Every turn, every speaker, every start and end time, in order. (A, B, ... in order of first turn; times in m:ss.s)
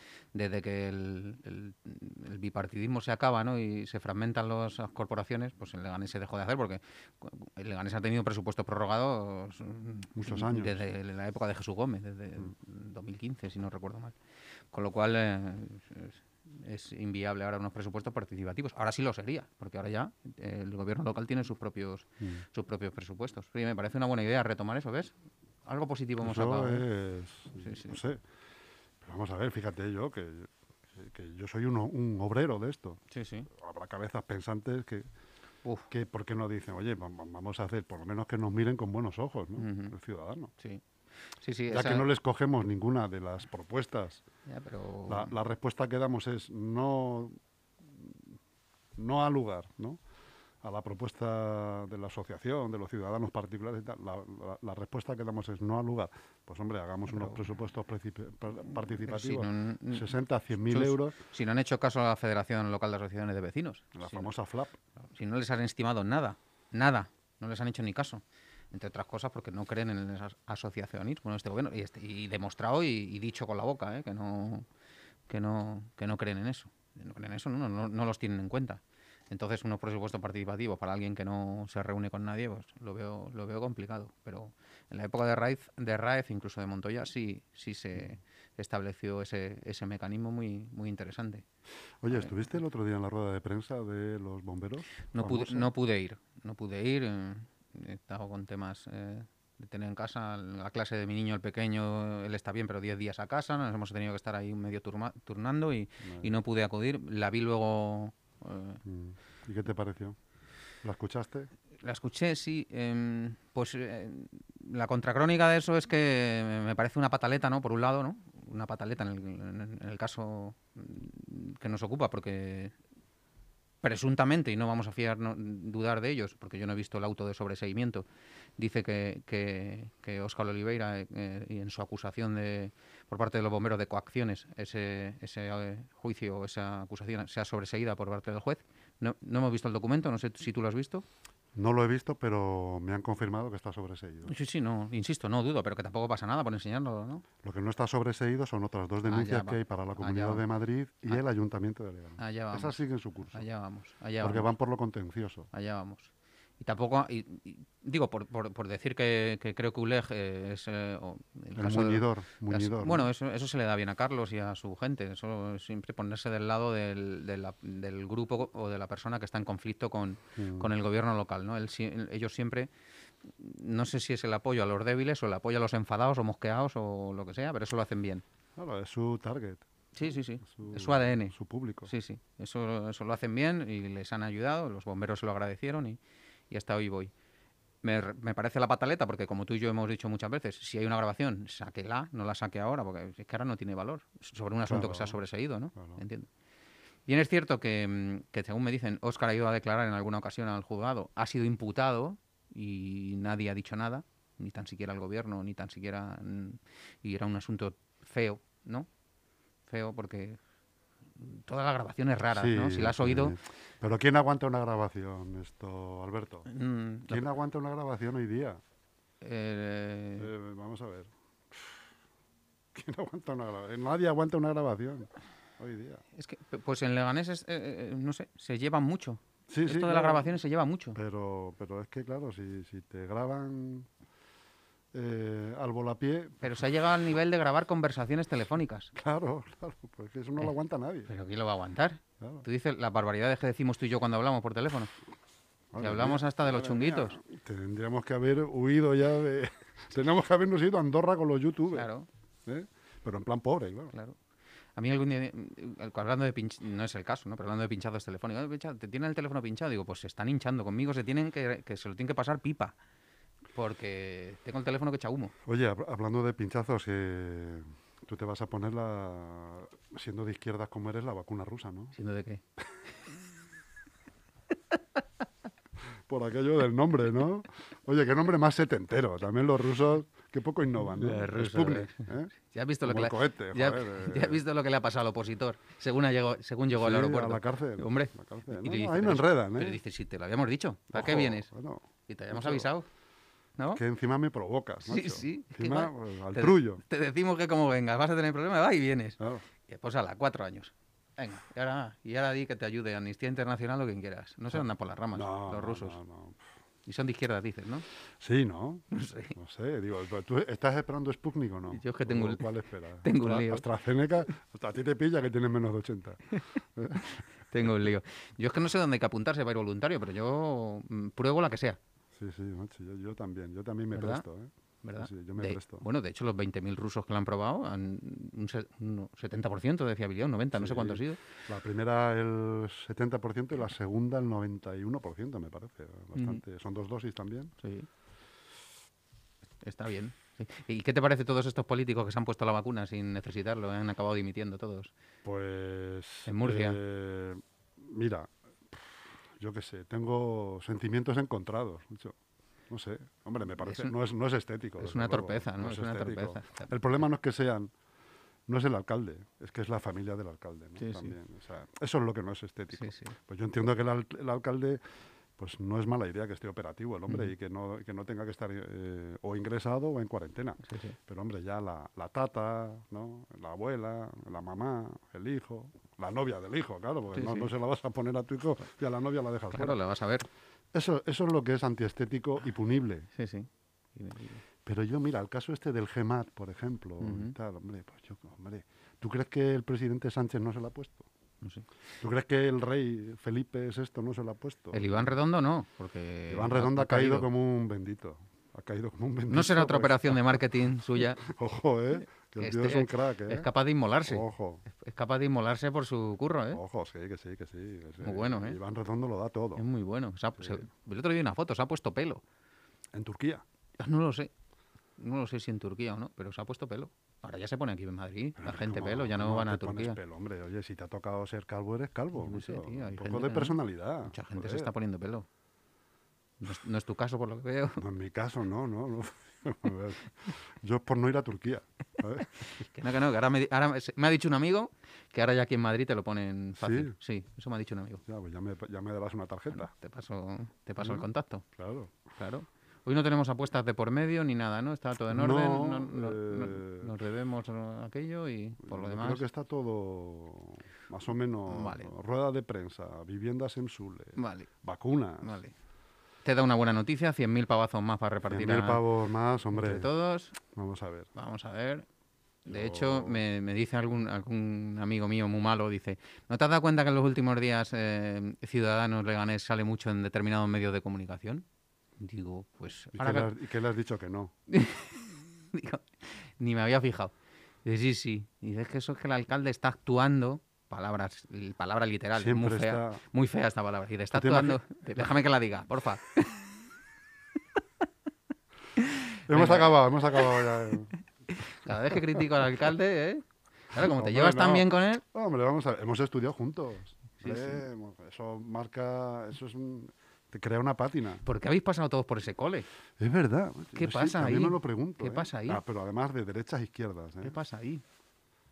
0:00.3-0:14.1 A
0:10.1-0:10.8 B
0:14.7-0:25.1 A
0:25.6-0:26.9 A
0:26.2-0:28.2 B
0:27.6-0:28.0 A
0:29.0-0:35.1 B
0:33.1-0:33.5 A
0:35.6-0:35.9 A
0:35.9-0:40.5 B
0:39.6-0:39.9 A
0:40.6-0:42.1 A
0:41.7-0:44.2 B
0:44.5-0:45.3 A
0:45.1-0:47.4 B
0:47.9-0:48.2 B
0:49.0-0:50.0 B
0:50.6-1:01.2 B
0:57.1-0:57.4 A
0:58.9-1:04.3 A
1:03.9-1:04.8 B
1:05.1-1:14.7 A
1:15.3-1:31.4 A
1:32.0-1:35.7 B
1:35.1-1:48.8 A
1:46.0-1:46.3 B
1:48.8-1:50.2 B
1:50.8-1:51.5 B
1:51.8-2:02.7 A
2:03.8-2:08.0 A
2:08.6-2:21.0 A
2:21.5-2:24.3 B
2:24.2-2:27.2 A
2:27.4-2:33.4 B
2:29.1-2:30.4 A
2:32.2-2:32.8 A
2:33.3-2:34.5 A
2:34.2-2:35.5 B
2:35.5-2:52.7 A
2:41.6-2:43.1 B
2:50.4-2:50.7 B
2:53.4-2:58.2 A
2:58.6-2:59.7 B
2:59.9-3:06.0 A
3:00.5-3:01.9 B
3:06.5-3:07.1 A
3:07.8-3:16.3 A
3:14.6-3:15.2 B
3:15.7-3:16.0 B
3:17.0-3:28.9 A
3:29.7-3:30.4 A
3:31.2-3:33.4 A
3:32.3-3:36.5 B
3:36.5-3:37.2 A
3:37.1-3:38.6 B
3:39.2-3:40.3 A
3:40.2-3:41.8 B
3:42.7-3:46.0 B
3:46.1-3:51.0 A
3:49.5-3:50.3 B
3:50.9-3:53.9 B
3:54.9-3:56.6 B
3:56.4-3:58.9 A
3:59.0-4:01.1 B
4:01.1-4:04.9 A
4:05.7-4:11.9 B
4:05.8-4:07.2 A
4:11.7-4:12.1 A
4:12.4-4:13.9 B
4:14.8-4:22.8 A
4:23.5-4:25.3 A
4:25.4-4:31.9 B
4:31.9-4:32.4 A
4:36.1-4:42.3 B
4:40.8-4:51.5 A
4:42.8-4:44.4 B
4:46.8-4:49.8 B
4:50.9-4:52.7 B
4:52.1-4:52.9 A
4:53.7-4:56.8 B
4:54.8-5:06.0 A
5:05.1-5:06.4 B
5:06.8-5:07.8 A
5:08.2-5:17.2 B
5:08.9-5:09.4 A
5:11.7-5:12.5 A
5:13.0-5:13.6 A
5:17.5-5:21.8 A
5:22.1-5:25.8 B
5:23.9-5:24.2 A
5:24.8-5:31.2 A
5:30.5-5:37.5 B
5:36.1-5:36.4 A
5:37.6-5:37.9 A
5:39.6-5:44.9 A
5:45.2-5:52.2 B
5:46.2-5:46.8 A
5:52.7-5:57.7 B
5:53.6-5:53.9 A
5:54.8-5:56.7 A
5:58.5-6:04.8 B
6:00.8-6:01.1 A
6:02.7-6:03.2 A
6:05.4-6:19.8 B
6:10.6-6:11.0 A
6:17.1-6:17.5 A
6:19.5-6:20.3 A
6:20.7-6:23.1 B
6:23.1-6:24.4 A
6:24.6-6:31.0 B
6:27.0-6:27.3 A
6:32.0-6:35.1 B
6:34.7-6:37.3 A
6:36.3-6:40.4 B
6:39.3-6:41.2 A
6:41.2-6:43.5 B
6:42.4-6:46.6 A
6:44.0-6:44.6 B
6:46.5-6:49.6 B
6:48.0-6:48.6 A
6:49.5-6:52.2 A
6:50.4-6:50.6 B
6:52.9-6:53.4 B
6:53.8-6:54.3 A
6:55.0-7:00.0 A
6:58.4-7:04.7 B
7:02.2-7:05.3 A
7:06.4-7:07.8 A
7:07.8-7:12.3 B
7:12.4-7:18.0 A
7:16.6-7:16.9 B
7:18.0-7:19.7 B
7:19.5-7:21.4 A
7:20.8-7:21.9 B
7:22.2-7:29.2 A
7:25.1-7:26.9 B
7:28.6-7:35.4 B
7:31.5-7:31.9 A
7:34.2-7:34.5 A
7:35.2-7:35.5 A
7:36.2-7:38.8 A
7:38.2-7:39.9 B
7:39.5-7:40.4 A
7:40.5-7:41.1 B
7:41.1-7:41.8 A
7:42.4-7:51.4 A
7:42.4-7:43.2 B
7:52.0-7:53.3 A
7:52.9-7:54.3 B
7:54.5-7:57.1 A
7:57.6-8:06.5 A
8:02.2-8:03.0 B
8:04.1-8:04.6 B
8:08.8-8:10.5 A
8:09.2-8:10.9 B
8:11.3-8:15.0 A
8:13.7-8:21.2 B
8:17.2-8:17.6 A
8:21.2-8:22.7 A
8:23.0-8:27.4 B
8:23.7-8:25.6 A
8:27.2-8:27.8 A